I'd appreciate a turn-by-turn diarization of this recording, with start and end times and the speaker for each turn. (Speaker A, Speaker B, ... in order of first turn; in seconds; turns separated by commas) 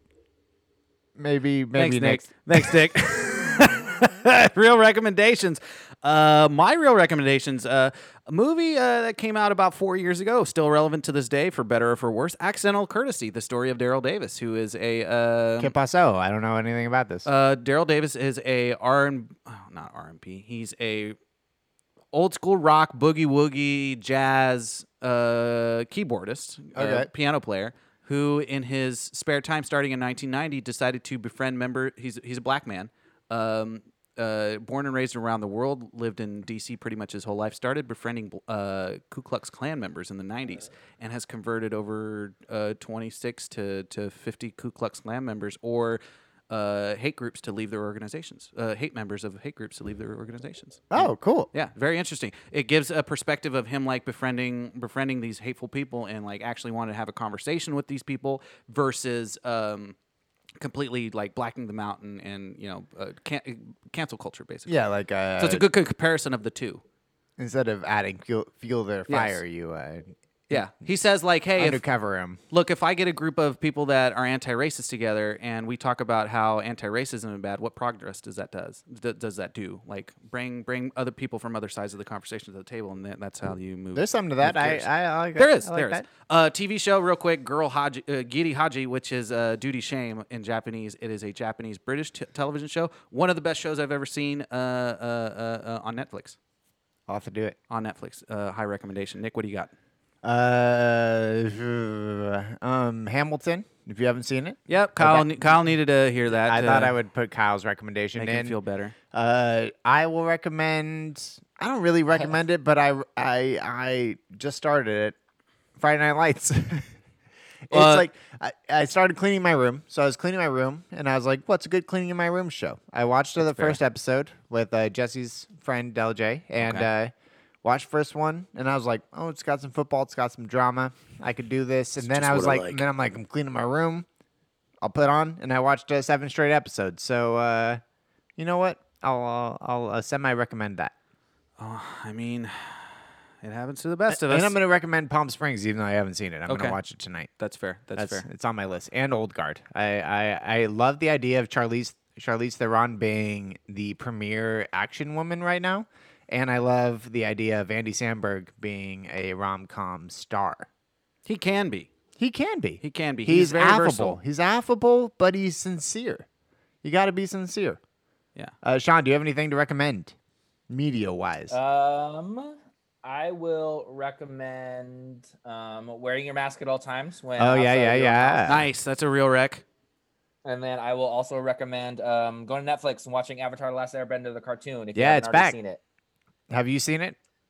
Speaker A: 1.1-2.7, Speaker B: 1.8-15.7, Speaker A: 15.6-17.3, Speaker B: 17.2-21.2, Speaker B: 22.1-60.0, Speaker A: 26.7-27.1, Speaker A: 50.9-51.5, Speaker B: 60.6-64.7, Speaker A: 64.7-65.7, Speaker B: 65.4-66.8, Speaker A: 67.4-70.7, Speaker B: 69.1-69.4, Speaker B: 70.5-71.8, Speaker A: 71.6-72.4, Speaker B: 72.5-96.4, Speaker A: 83.9-86.1, Speaker A: 97.1-97.6, Speaker B: 97.7-99.7, Speaker A: 100.2-105.5, Speaker B: 104.7-107.0, Speaker A: 106.3-108.6, Speaker B: 108.1-108.9, Speaker A: 109.1-115.2, Speaker A: 115.8-116.9, Speaker A: 117.7-134.1, Speaker B: 117.7-118.1, Speaker B: 123.4-123.8, Speaker B: 126.6-126.9, Speaker B: 132.2-132.8, Speaker A: 134.8-137.8, Speaker A: 138.3-140.9, Speaker B: 141.6-142.9, Speaker B: 143.4-144.6, Speaker A: 144.1-147.3, Speaker B: 146.5-146.8, Speaker B: 147.4-148.2, Speaker A: 147.9-160.7, Speaker B: 161.2-161.9, Speaker A: 162.2-166.2, Speaker B: 162.8-164.2, Speaker A: 166.8-167.8, Speaker A: 168.6-170.1, Speaker A: 170.7-171.6, Speaker C: 171.5-178.4, Speaker A: 177.4-178.7, Speaker B: 178.5-179.6, Speaker C: 180.4-185.8, Speaker A: 184.9-185.6, Speaker A: 186.5-187.2